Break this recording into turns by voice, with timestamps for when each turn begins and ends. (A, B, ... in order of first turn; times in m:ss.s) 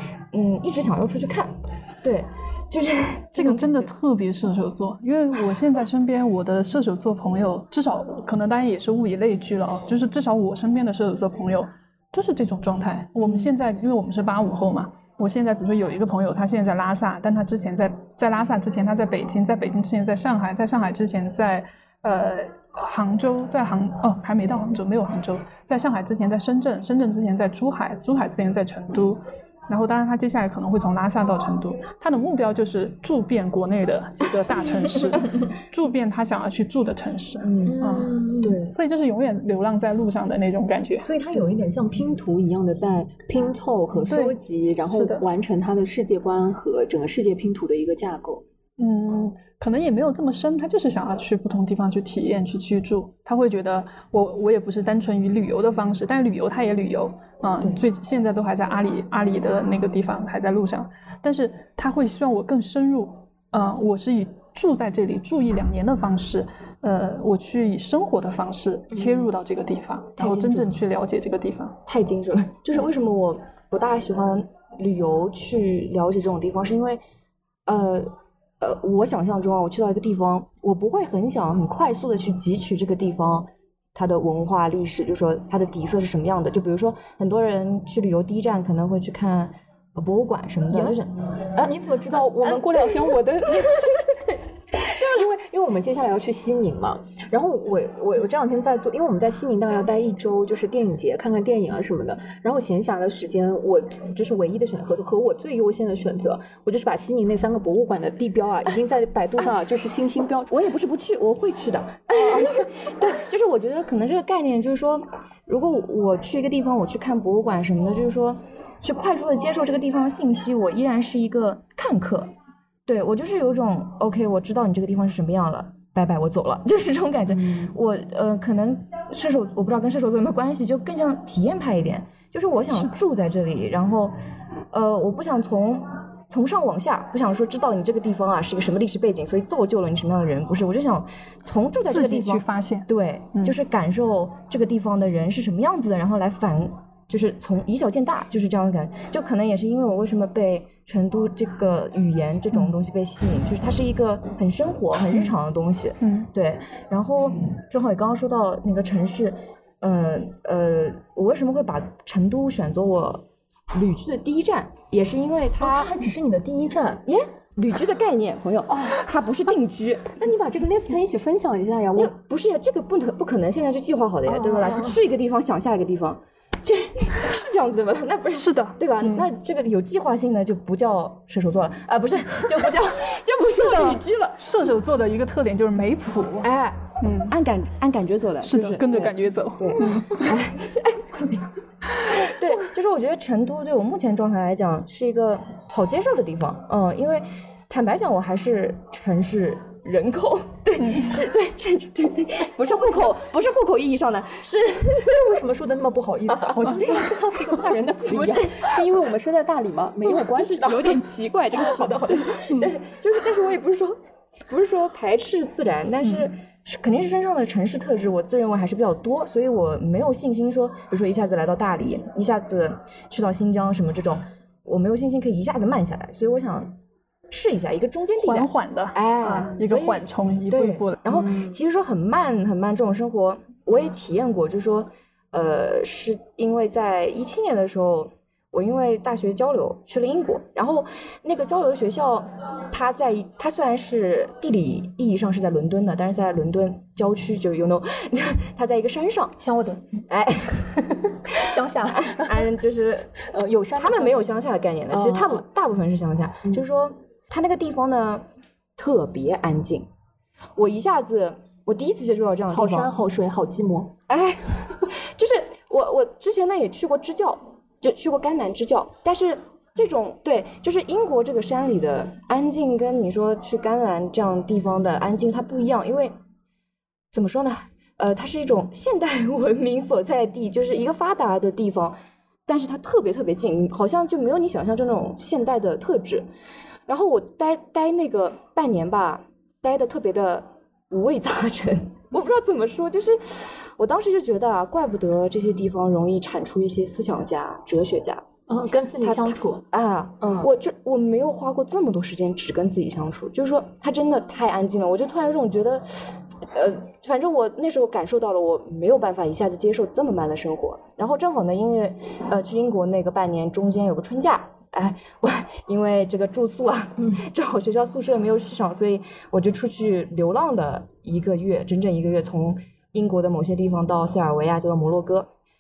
0:00.3-0:03.9 A
0:03.4-0:41.1 B
0:37.6-0:38.8 C
0:41.0-0:48.4 C
0:44.0-0:44.4 B
0:44.9-0:45.2 B
0:48.8-1:11.8 B
1:08.9-1:09.3 C
1:10.2-1:10.6 A
1:11.9-1:17.0 A
1:17.7-1:31.1 A
1:30.7-1:34.1 C
1:32.4-1:32.9 A
1:34.8-1:50.5 C
1:50.5-2:02.3 A
1:52.1-1:52.6 C
2:02.9-2:14.1 A
2:07.4-2:07.7 C
2:14.7-2:46.0 A
2:21.9-2:23.6 B
2:36.0-2:36.3 B
2:45.6-2:47.0 C
2:47.1-2:50.2 A
2:48.7-2:49.0 C
2:50.2-2:52.1 C
2:52.0-3:04.4 A
2:54.3-2:55.0 C
2:58.3-2:59.3 B
3:03.4-3:06.5 B
3:06.4-3:11.4 A
3:07.0-3:07.4 B
3:08.4-3:10.4 B
3:12.0-3:25.2 A
3:20.8-3:21.2 B
3:22.8-3:23.1 C
3:24.8-3:31.0 C
3:26.3-3:27.0 A
3:28.0-3:28.7 A
3:30.1-3:34.0 A
3:31.6-3:32.7 C
3:34.5-3:46.7 A
3:47.3-4:09.4 A
3:48.2-3:51.5 B
4:09.4-4:09.8 C
4:10.1-4:10.9 A
4:11.4-4:12.5 C
4:11.9-4:13.2 A
4:13.2-4:14.3 C
4:13.8-4:18.2 A
4:14.9-4:15.4 C
4:18.8-4:19.9 A
4:20.6-4:22.9 A
4:22.5-4:23.9 C
4:24.1-4:36.2 A
4:37.1-4:42.0 A
4:42.5-4:46.3 A
4:46.9-4:58.3 A
4:58.5-4:59.6 C
4:59.0-5:25.3 A
5:00.2-5:00.5 C